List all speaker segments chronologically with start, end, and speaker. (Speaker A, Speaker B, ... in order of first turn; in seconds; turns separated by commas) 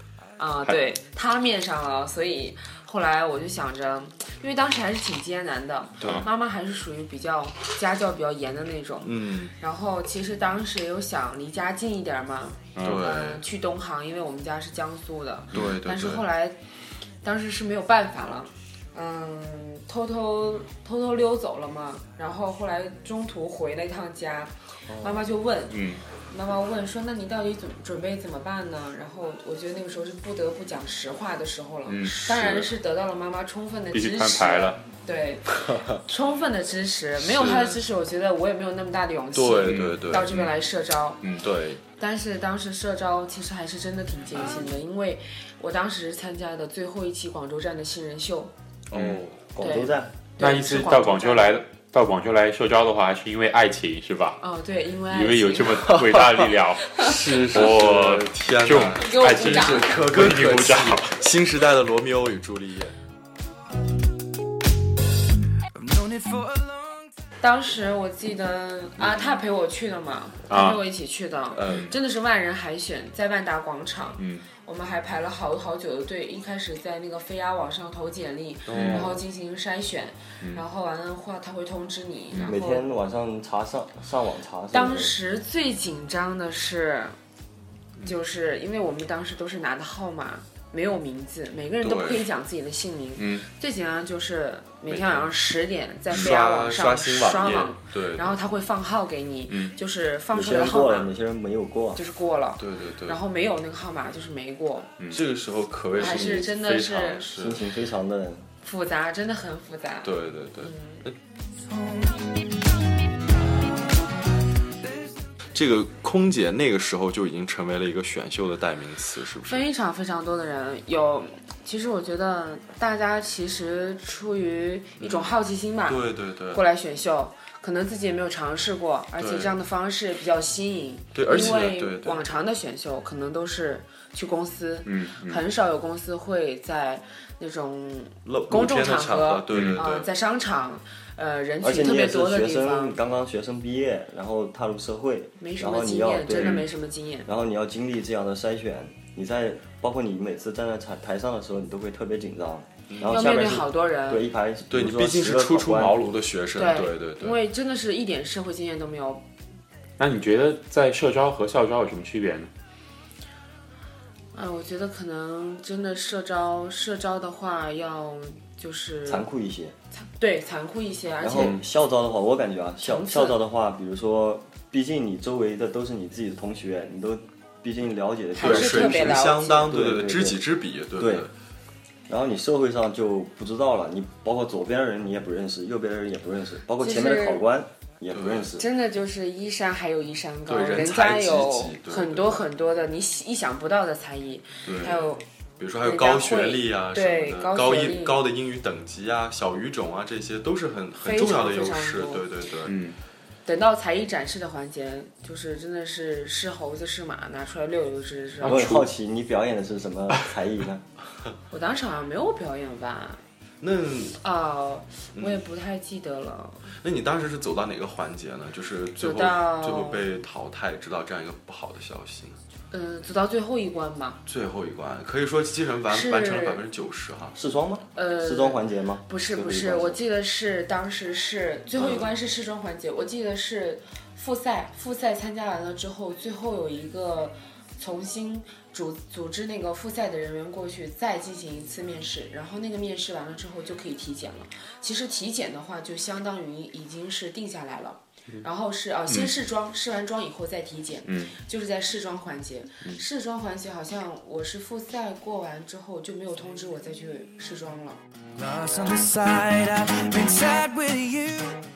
Speaker A: 0.4-16.6, Speaker B: 6.0-6.3, Speaker B: 9.0-9.5, Speaker C: 12.7-13.0, Speaker B: 12.8-13.4, Speaker B: 15.5-16.2, Speaker A: 17.2-41.2, Speaker D: 24.9-25.2, Speaker C: 25.7-26.0, Speaker C: 31.9-32.2, Speaker B: 32.2-32.7, Speaker C: 33.9-34.8, Speaker B: 37.2-37.8, Speaker B: 39.3-40.4, Speaker C: 39.6-40.5, Speaker B: 41.4-41.8, Speaker A: 42.0-48.5, Speaker B: 48.9-49.5, Speaker C: 48.9-49.2, Speaker D: 49.5-50.1, Speaker A: 49.6-51.6, Speaker C: 50.4-54.4, Speaker A: 54.4-56.0, Speaker C: 55.1-61.1, Speaker B: 56.9-62.9, Speaker A: 58.9-60.0, Speaker A: 67.4-82.8, Speaker C: 70.5-70.8, Speaker B: 71.5-71.9, Speaker C: 71.7-71.9, Speaker C: 74.2-74.4, Speaker B: 78.7-79.2, Speaker C: 78.7-79.1, Speaker C: 82.3-82.6, Speaker D: 82.4-85.1, Speaker A: 84.7-87.1, Speaker A: 88.0-101.1, Speaker B: 91.8-92.3, Speaker C: 93.2-93.5, Speaker B: 94.9-95.3, Speaker B: 96.1-98.4, Speaker C: 99.5-99.7, Speaker D: 100.3-102.0, Speaker A: 101.9-104.9, Speaker B: 102.6-103.2, Speaker B: 105.1-107.6, Speaker A: 106.0-107.2, Speaker D: 107.4-108.5, Speaker A: 108.6-111.0, Speaker B: 110.0-111.1, Speaker B: 115.5-119.6, Speaker A: 119.5-143.0, Speaker B: 125.0-126.6, Speaker B: 129.2-129.6, Speaker B: 131.1-132.2, Speaker C: 134.8-135.4, Speaker B: 138.2-140.1, Speaker C: 139.5-139.8, Speaker D: 141.6-146.7, Speaker A: 145.4-147.3, Speaker D: 147.2-156.0, Speaker B: 152.9-153.2, Speaker A: 153.1-154.2, Speaker B: 154.7-157.4, Speaker A: 156.6-159.2, Speaker C: 160.0-162.5, Speaker A: 164.3-169.2, Speaker D: 169.1-169.7, Speaker A: 169.9-171.6, Speaker D: 171.2-180.4, Speaker C: 171.3-171.6, Speaker A: 172.8-173.4, Speaker A: 178.3-179.6, Speaker B: 178.4-181.3, Speaker D: 180.9-181.3, Speaker D: 182.1-188.7, Speaker A: 186.8-187.4, Speaker B: 188.1-188.5, Speaker A: 188.6-195.2, Speaker B: 190.5-192.4, Speaker B: 194.6-195.0, Speaker B: 195.6-202.7, Speaker A: 195.8-198.2, Speaker A: 201.0-202.2, Speaker C: 202.6-203.0, Speaker A: 203.4-208.6, Speaker C: 208.4-208.9, Speaker D: 208.4-210.8, Speaker A: 211.5-213.2, Speaker B: 213.6-214.2, Speaker A: 214.2-216.7, Speaker B: 215.1-215.4, Speaker B: 216.8-222.4, Speaker A: 219.0-220.0, Speaker A: 222.7-224.2, Speaker B: 224.2-227.3, Speaker A: 225.9-226.6, Speaker D: 227.3-230.0, Speaker A: 227.9-258.0, Speaker B: 231.8-232.1, Speaker C: 251.1-251.3, Speaker E: 258.5-261.5